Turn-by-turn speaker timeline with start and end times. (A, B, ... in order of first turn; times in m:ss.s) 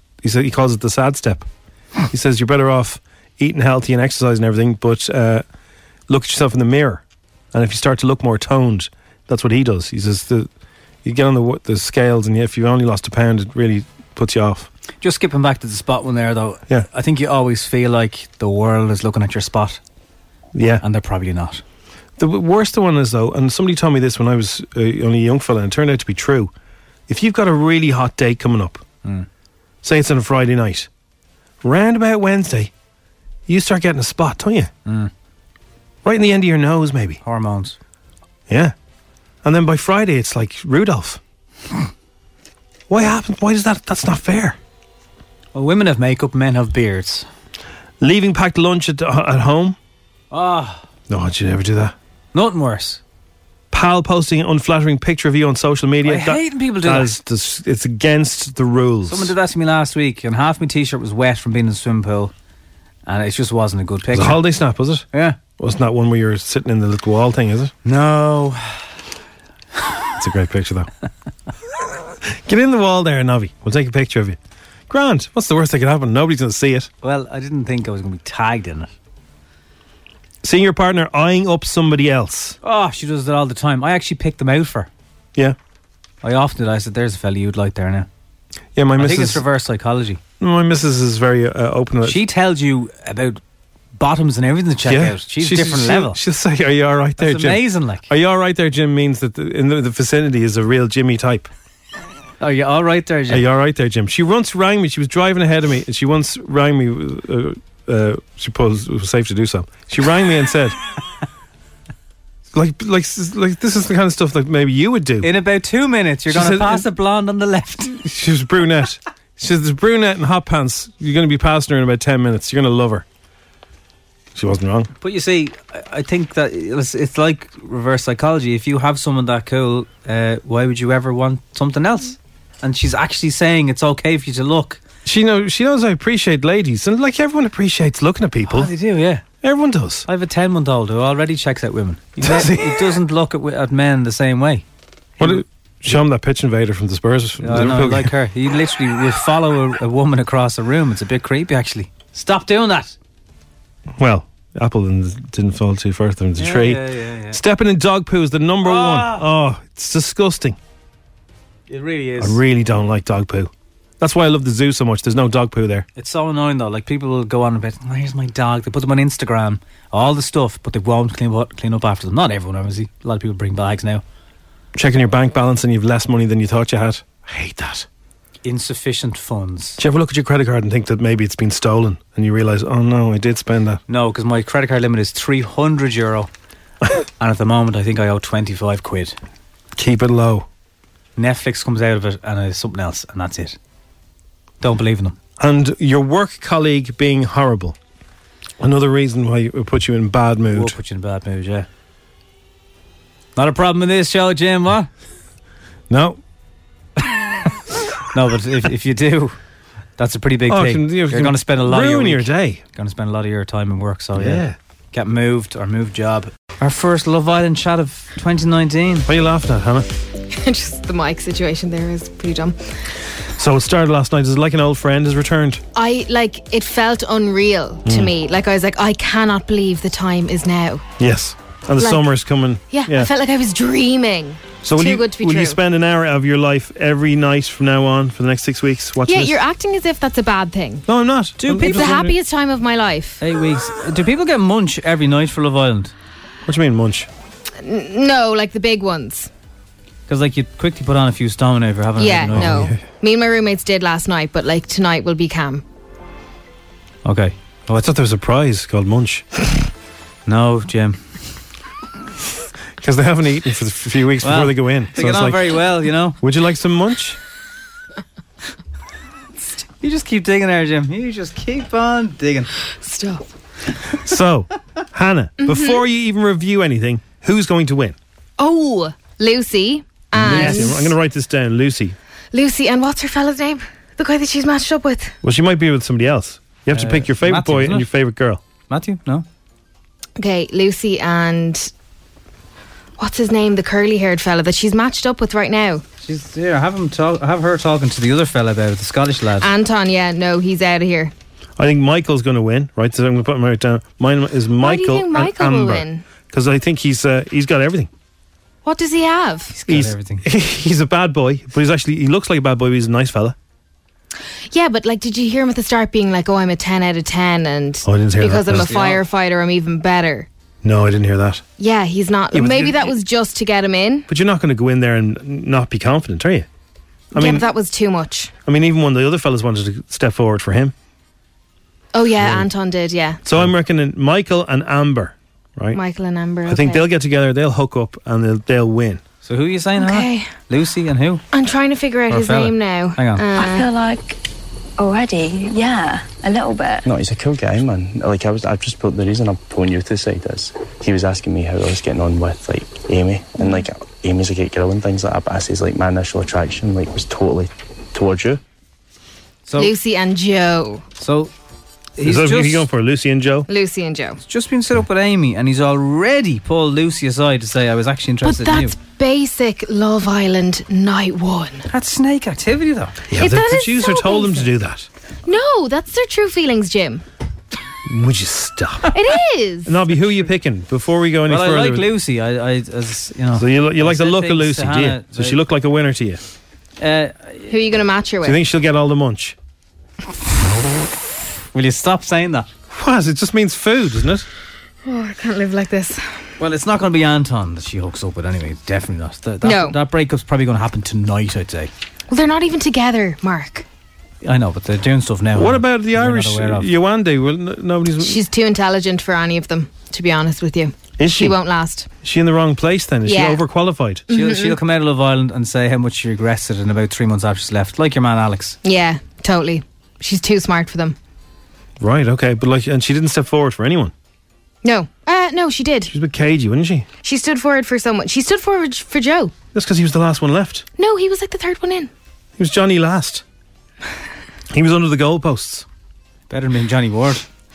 0:00.2-0:01.5 A
0:02.1-0:05.4 A
0:06.1-0:10.5 A
0:11.0-0:14.7 A
0:15.0-0:19.8 B
0:20.5-0:20.8 A
0:20.8-0:21.6 B
0:22.2-0:26.5 A
0:27.1-0:28.8 A
0:29.8-0:30.9 A
0:31.6-0:32.7 A
0:33.5-0:34.7 A
0:34.9-0:35.1 B
0:36.0-0:37.2 A
0:37.2-0:37.8 B
0:38.5-0:38.8 A
0:39.4-0:41.2 A
0:42.9-0:44.6 A
0:45.5-0:47.3 B
0:48.0-0:49.8 A
0:50.3-0:50.9 B
0:51.1-0:52.0 A
0:52.3-0:53.0 B
0:53.7-0:59.3 A
0:56.0-0:57.2 B
0:59.1-1:02.3 B
1:03.1-1:04.4 B
1:04.1-1:05.1 A
1:05.1-1:05.4 B
1:05.6-1:07.7 A
1:07.8-1:09.0 B
1:10.2-1:10.9 A
1:11.8-1:14.4 A
1:14.9-1:16.9 A
1:17.0-1:18.9 B
1:20.4-1:22.6 A
1:22.6-1:24.9 B
1:26.2-1:28.1 B
1:28.8-1:29.4 A
1:29.0-1:30.2 B
1:30.4-1:32.2 A
1:32.0-1:33.4 B
1:34.0-1:36.2 B
1:34.8-1:41.5 A
1:37.2-1:38.1 B
1:42.4-1:43.4 B
1:43.3-1:50.8 A
1:52.5-1:55.3 A
1:55.2-1:58.0 B
1:56.3-1:56.9 A
1:58.0-2:03.0 A
2:04.4-2:04.9 A
2:05.0-2:14.8 B
2:15.0-2:18.7 A
2:18.5-2:19.2 B
2:19.4-2:20.1 A
2:20.1-2:24.6 B
2:22.2-2:22.9 A
2:25.2-2:28.1 A
2:27.4-2:33.0 B
2:34.0-2:40.6 A
2:36.4-2:37.4 B
2:38.6-2:39.2 B
2:41.7-2:42.4 B
2:42.2-2:45.9 A
2:46.0-2:54.0 B
2:54.7-2:57.9 A
2:58.4-2:59.8 B
2:59.8-3:03.8 A
3:03.9-3:06.3 B
3:07.2-3:09.2 B
3:09.8-3:10.5 A
3:11.2-3:13.6 B
3:14.6-3:15.2 B
3:15.4-3:17.8 A
3:18.6-3:20.8 A
3:20.5-3:21.7 B
3:23.4-3:24.9 B
3:25.9-3:26.2 A
3:28.1-3:29.4 B
3:30.0-3:39.1 B
3:30.5-3:32.6 A
3:34.2-3:34.6 A
3:39.1-3:39.9 A
3:40.3-3:42.6 C
3:43.4-3:45.6 A
3:45.8-3:50.8 C
3:47.8-3:48.1 A
3:51.0-3:53.1 A
3:51.8-3:52.0 C
3:52.7-3:55.6 C
3:54.6-3:59.4 A
3:59.1-4:00.8 C
4:00.9-4:02.1 A
4:01.4-4:02.2 B
4:01.6-4:03.2 C
4:03.2-4:05.9 B
4:06.5-4:07.1 A
4:07.6-4:09.3 C
4:10.1-4:12.7 B
4:12.0-4:15.6 C
4:12.3-4:12.8 A
4:17.0-4:17.4 B
4:17.7-4:19.3 A
4:20.3-4:21.0 B
4:22.8-4:25.5 A
4:24.2-4:26.2 B
4:26.2-4:27.2 A
4:29.8-4:32.5 B
4:32.8-4:33.2 C
4:34.0-4:38.0 A
4:35.4-4:35.8 C
4:38.4-4:40.9 C
4:40.1-4:42.0 A
4:40.2-4:40.8 B
4:42.3-4:45.2 C
4:45.2-4:48.4 A
4:46.7-4:47.9 B
4:48.7-4:49.3 B
4:50.2-4:51.7 C
4:53.0-4:55.8 C
4:56.0-4:59.5 B
4:59.4-5:01.1 C
5:01.6-5:07.9 A
5:04.6-5:06.0 C
5:08.6-5:09.6 C
5:09.5-5:10.2 B
5:09.7-5:13.4 A
5:14.5-5:20.3 C
5:17.8-5:18.9 A
5:18.5-5:19.0 B
5:20.6-5:21.5 A
5:21.6-5:24.1 C
5:22.3-5:23.0 A
5:24.1-5:26.5 A
5:27.1-5:27.5 A
5:27.1-5:28.3 C
5:28.5-5:30.7 A
5:31.9-5:33.2 C
5:32.2-5:32.5 A
5:33.2-5:35.8 A
5:35.7-5:36.9 C
5:36.4-5:39.0 A
5:39.2-5:41.2 B
5:39.8-5:40.3 C
5:41.3-5:43.7 C
5:42.1-5:43.2 B
5:43.4-5:44.2 D
5:44.8-5:46.8 D
5:46.8-5:58.4 E
5:59.5-5:59.7 B
5:59.6-6:00.8 C
6:01.0-6:01.3 B
6:02.0-6:02.7 B
6:02.0-6:03.5 A
6:03.5-6:04.2 C
6:04.2-6:08.8 B
6:08.2-6:11.7 C
6:11.7-6:13.0 B
6:13.1-6:14.9 A
6:13.1-6:14.4 C
6:15.3-6:17.0 C
6:17.9-6:19.0 A
6:18.9-6:19.8 C
6:19.6-6:21.9 A
6:21.3-6:25.4 B
6:23.3-6:26.2 A
6:26.8-6:27.5 B
6:27.5-6:28.4 C
6:28.2-6:29.4 A
6:31.5-6:32.5 B
6:32.7-6:34.3 A
6:34.8-6:36.1 C
6:36.4-6:41.7 B
6:39.4-6:39.8 C
6:42.1-6:43.6 C
6:44.2-6:46.7 B
6:45.4-6:48.2 A
6:48.0-6:51.9 C
6:51.0-6:51.4 A
6:52.0-6:54.1 A
6:53.1-6:53.4 C
6:54.1-6:54.6 C
6:54.1-6:58.6 B
6:58.6-7:01.0 C
7:01.8-7:03.9 A
7:04.6-7:05.9 C
7:05.9-7:06.9 A
7:07.0-7:09.3 C
7:09.5-7:10.7 A
7:10.8-7:11.9 C
7:12.4-7:13.2 A
7:14.5-7:15.7 A
7:16.3-7:17.2 B